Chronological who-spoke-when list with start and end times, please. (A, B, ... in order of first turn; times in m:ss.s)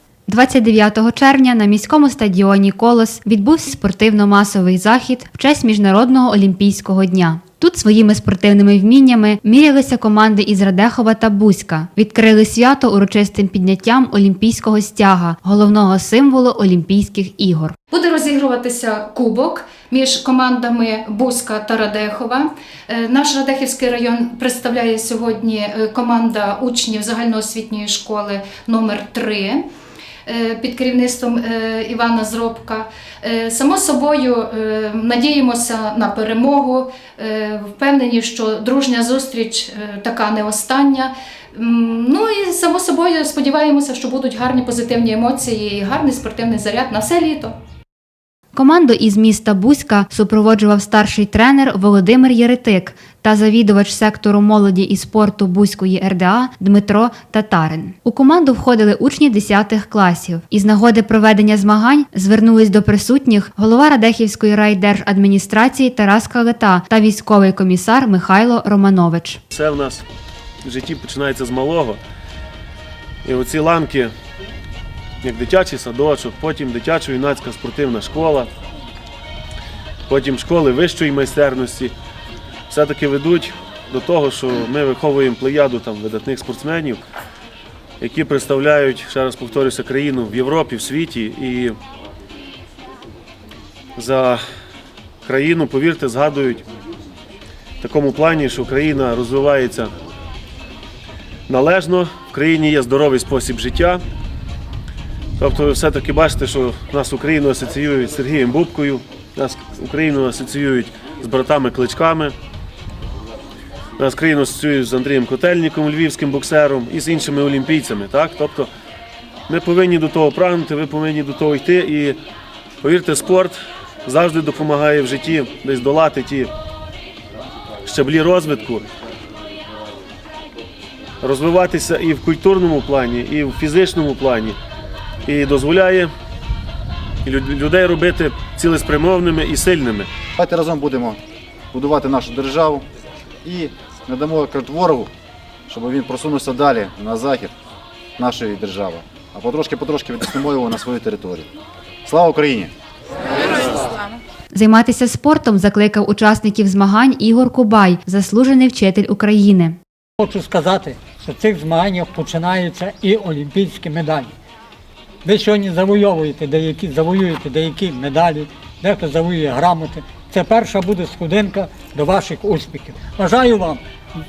0:00.3-0:17.7 A
0:17.9-0:29.6 B
0:30.2-0:47.6 B
0:48.5-1:09.4 A
1:09.5-1:10.0 C
1:10.6-1:12.0 C
1:13.2-1:14.1 C
1:15.2-1:18.5 C
1:20.1-1:21.9 C
1:22.7-1:27.0 C
1:28.0-1:31.8 C
1:34.0-1:34.4 C
1:35.2-1:36.6 C
1:37.8-1:39.9 C
1:41.5-1:44.0 C
1:45.4-1:52.3 C
1:54.0-1:58.7 C
1:59.5-2:02.2 C
2:02.8-2:06.5 C
2:07.8-2:08.8 C
2:11.2-2:14.6 C
2:15.2-2:16.1 C
2:17.2-2:20.1 C
2:20.4-2:21.2 D
2:21.7-2:22.8 D
2:23.4-2:25.1 D
2:25.7-2:27.5 D
2:28.2-2:31.5 D
2:32.0-2:32.7 D
2:34.5-2:39.8 A
2:40.2-2:44.3 E
2:45.2-2:53.8 E